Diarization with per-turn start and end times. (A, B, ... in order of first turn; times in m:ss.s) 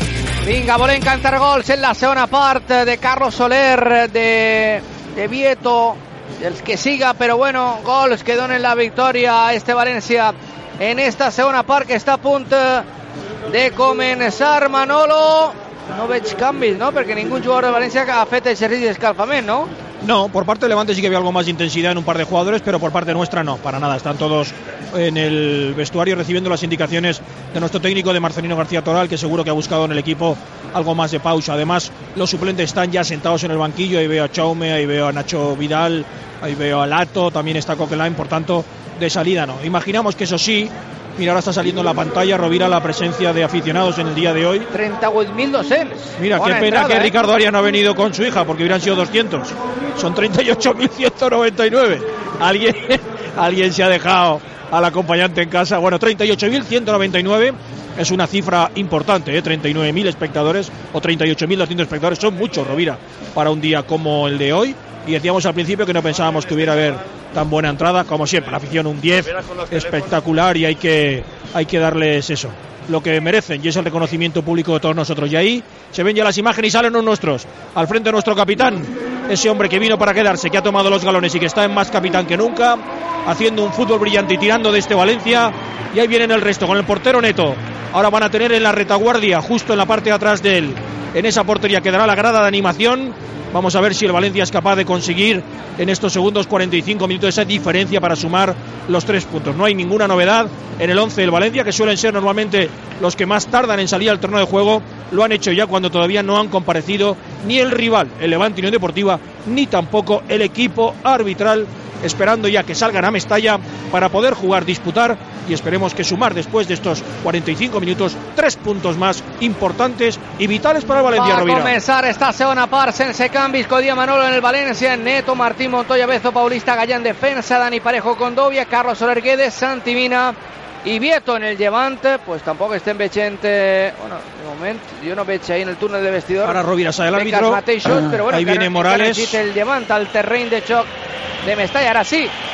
0:00.4-0:12.8 A
0:13.5-0:19.7 A
0:20.0-0:44.7 B
0:44.7-0:47.1 A
0:46.2-2:01.8 B
2:01.1-2:20.9 A
2:16.4-2:19.4 B
2:21.4-2:22.3 A